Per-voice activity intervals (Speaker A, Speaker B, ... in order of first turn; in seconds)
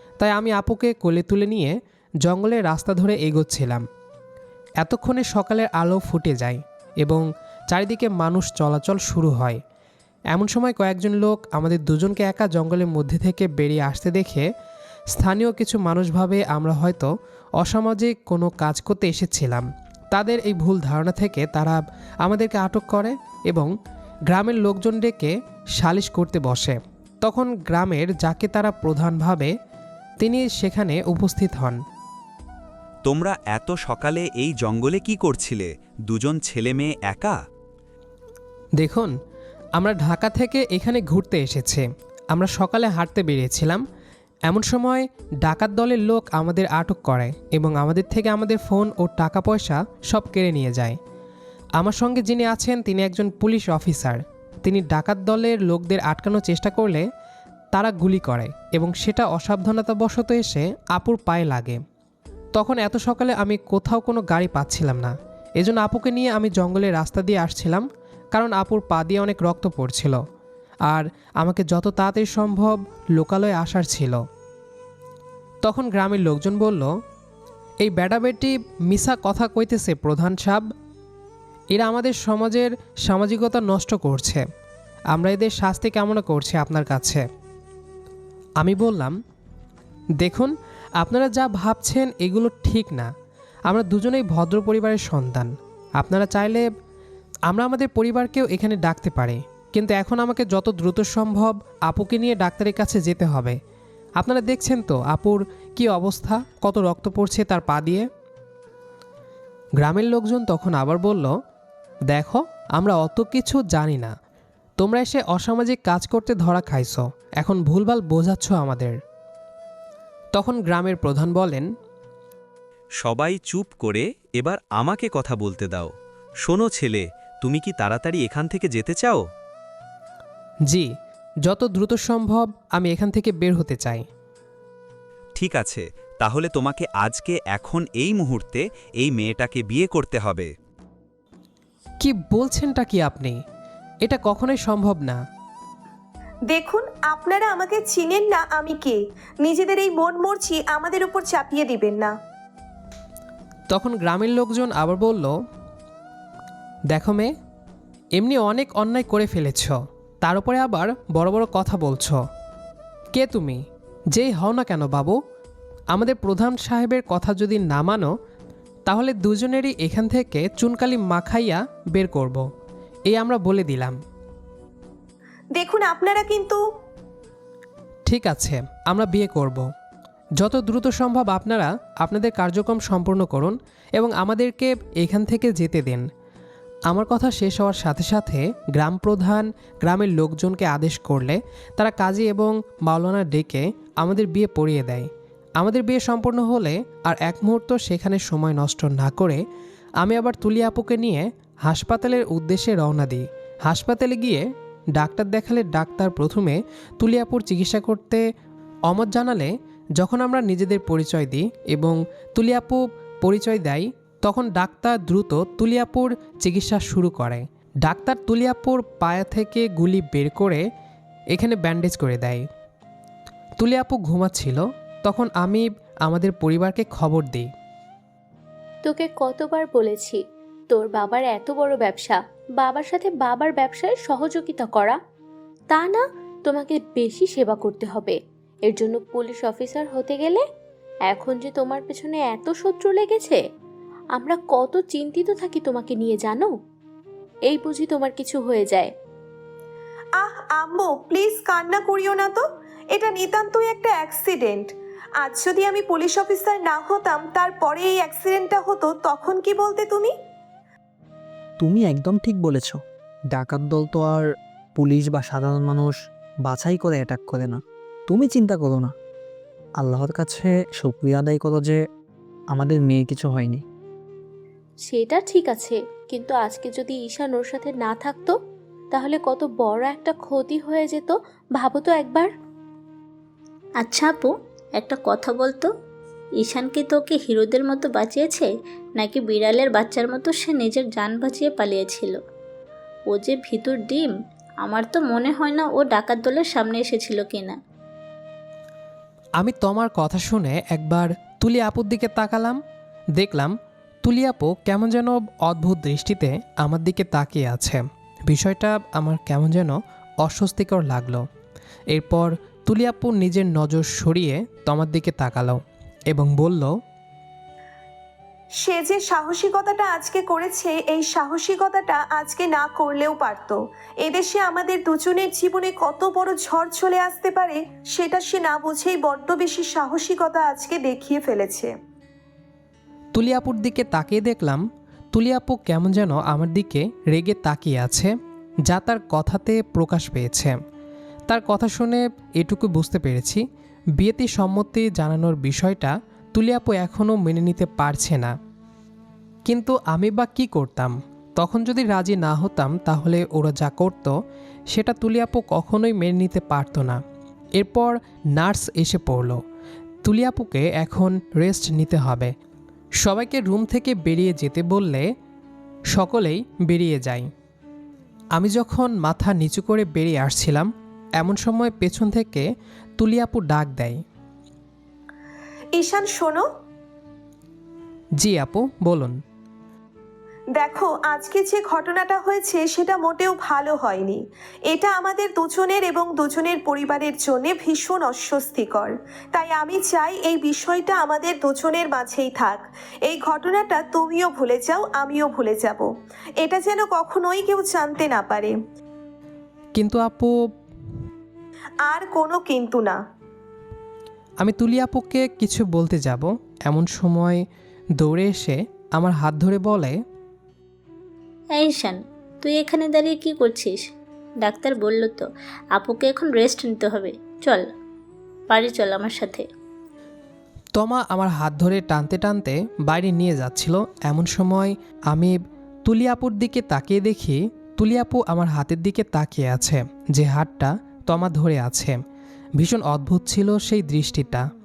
Speaker A: 0.2-3.8, 4.8-9.6, 10.3-14.5, 15.1-23.7, 24.3-29.5, 30.2-31.8, 38.8-39.1, 39.8-43.8, 44.5-51.0, 51.8-57.1, 57.7-61.8, 62.5-70.2, 70.9-74.2, 75.6-76.9, 77.8-80.7, 81.7-84.4, 85.1-87.2, 88.6-89.1, 90.2-93.1, 93.7-96.7, 97.5-103.6, 104.2-108.1, 109.8-111.3, 112.1-114.1, 114.8-119.0, 120.3-121.7, 131.4-134.1, 142.0-143.4, 144.0-145.2, 153.7-155.3, 156.9-157.3, 158.2-162.2, 163.1-165.2, 165.9-168.1, 168.9-172.5, 173.1-173.9, 178.1-179.7, 180.4-186.1, 186.9-199.4, 200.0-208.2, 208.9-220.6, 221.3-222.4, 223.6-227.5, 299.4-302.6, 303.1-311.2, 311.9-316.7, 333.1-338.1, 338.6-340.6, 341.3-343.4, 344.0-348.4, 349.5-354.1, 354.7-357.0, 357.6-359.4, 360.0-362.3, 363.0-365.1, 365.9-367.3, 368.3-374.0, 378.2-379.1, 399.8-400.3, 404.4-407.4, 408.0-410.0, 420.8-432.0, 432.6-434.5
Speaker B: 33.0-37.4, 123.0-129.2, 135.3-140.5
Speaker C: 146.5-152.1, 175.6-176.6, 250.2-260.1, 318.6-331.7, 375.8-376.4, 380.5-395.9, 396.4-398.5, 401.8-403.0
Speaker D: 228.8-235.0, 235.7-240.4, 241.1-243.4, 244.1-246.5, 247.5-248.9, 274.9-278.4, 278.9-282.3
Speaker E: 261.6-262.8, 263.3-264.2, 264.8-268.9, 269.8-271.8, 272.5-273.6
Speaker F: 283.8-285.7, 286.4-292.2, 293.1-294.1, 294.6-297.6, 411.5-413.8, 414.4-417.7, 418.5-419.4